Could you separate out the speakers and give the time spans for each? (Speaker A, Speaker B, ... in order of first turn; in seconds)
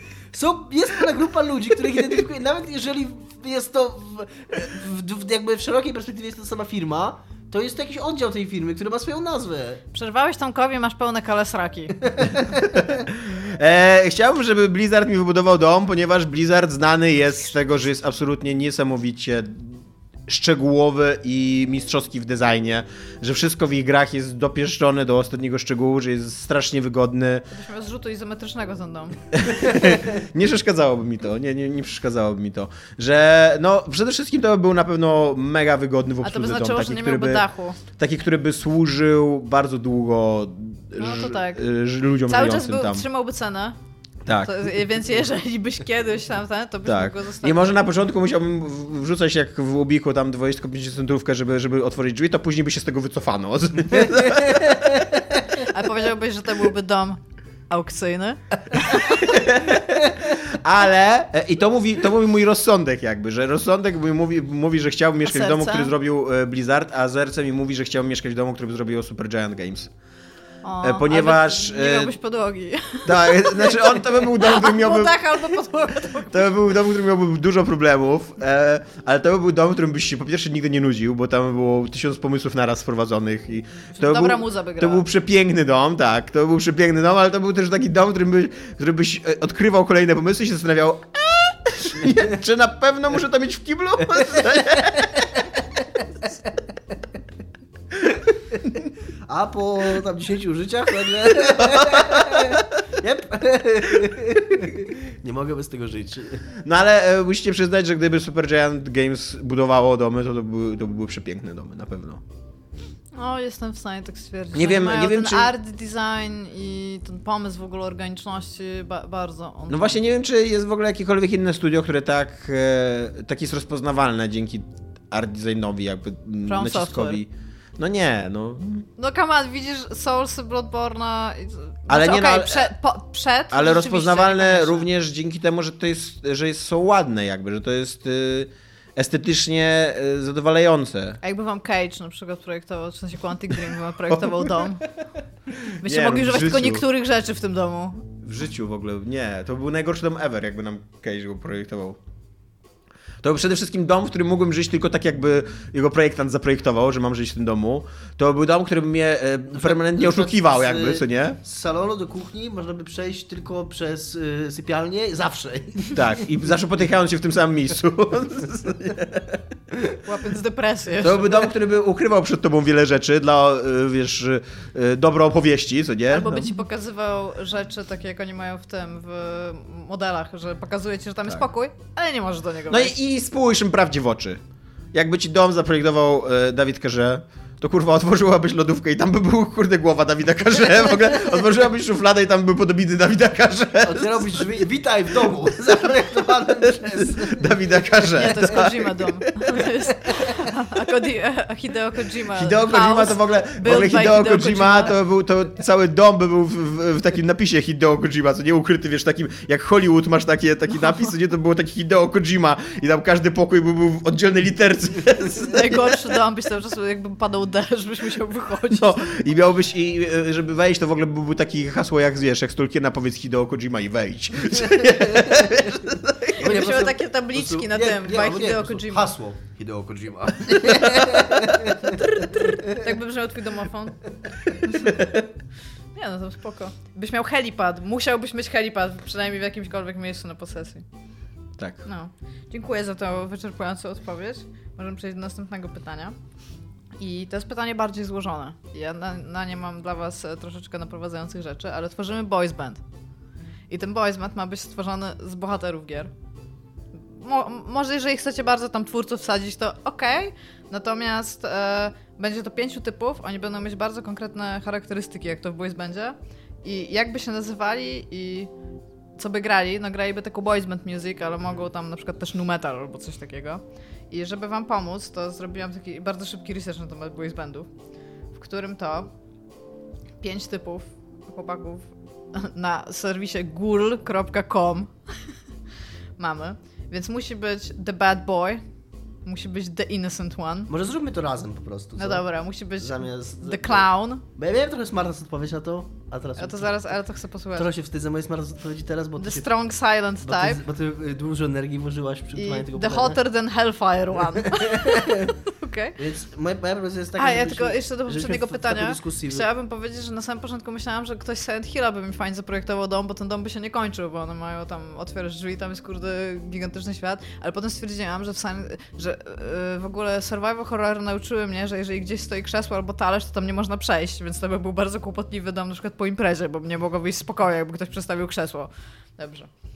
Speaker A: 0.3-9.8, 12.0-12.3, 99.3-106.5, 159.5-166.1, 193.8-197.7, 226.4-232.7, 290.7-296.8, 297.6-299.5, 300.2-303.2, 304.4-305.4, 306.0-309.5
Speaker B: 9.9-11.9, 27.5-29.2, 36.2-37.8, 41.0-41.6, 42.3-43.8, 44.3-47.7, 55.6-59.1, 65.2-65.9, 70.6-76.6, 83.9-85.0, 113.1-120.0, 126.5-127.2, 129.0-134.9, 141.2-144.8, 145.8-148.1, 170.0-171.5, 176.1-182.9, 198.1-205.0, 215.4-219.1, 226.3-229.1, 231.8-234.0, 235.9-240.8, 241.8-246.2, 247.0-252.8, 253.7-256.1, 257.0-268.5, 269.2-277.7, 278.3-279.1, 280.2-284.9, 286.2-288.6, 289.2-290.7, 292.0-294.2, 296.4-297.7, 299.2-300.6, 302.4-306.0, 307.2-329.5
Speaker C: 12.4-27.4, 29.3-43.0, 44.2-44.6, 46.8-55.0, 59.0-69.9, 70.8-72.1, 73.0-75.2, 76.3-95.3, 101.6-102.6, 106.6-112.2, 114.5-115.5, 119.7-128.9, 131.9-132.7, 133.5-141.2, 144.1-144.6, 145.6-146.8, 148.2-152.0, 153.2-161.4, 165.9-169.4, 171.0-176.5, 182.7-184.4, 184.9-194.4, 197.0-199.7, 202.3-215.9, 218.7-226.3, 241.6-241.8